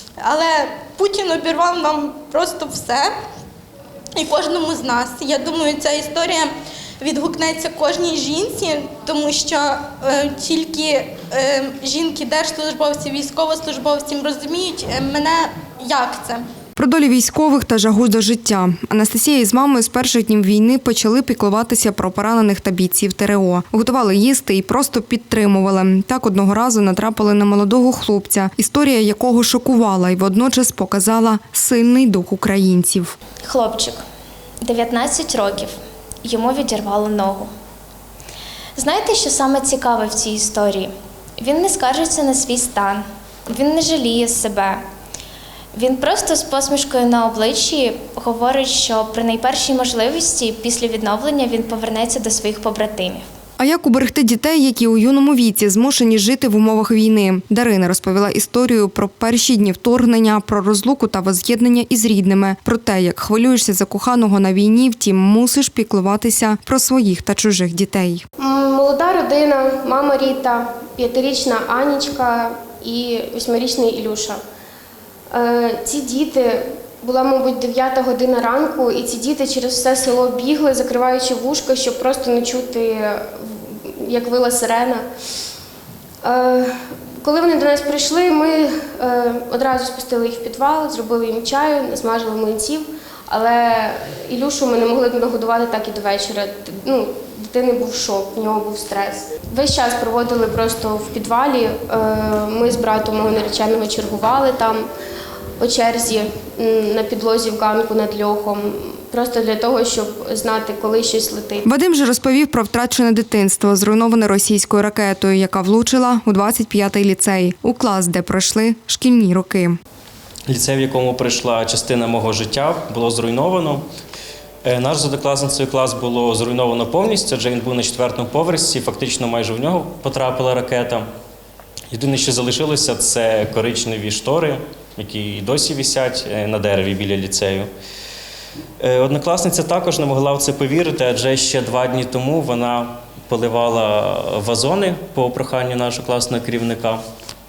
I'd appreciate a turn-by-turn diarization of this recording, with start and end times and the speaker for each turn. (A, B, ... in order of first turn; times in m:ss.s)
0:00.2-0:03.1 A
0:04.2-0:16.4 A
0:16.8-0:33.1 B
0:33.4-0:34.0 C
0:34.6-0:37.5 C
0:38.8-0:44.8 C
0:45.7-0:53.2 C
0:53.6-1:08.2 B
1:08.4-1:14.4 D
1:15.3-1:25.0 D
1:26.2-1:44.9 D
1:45.6-1:51.6 D
1:51.6-1:59.8 B
2:00.5-2:03.8 E
2:04.6-2:11.0 E
2:11.9-2:17.7 E
2:18.8-2:27.0 E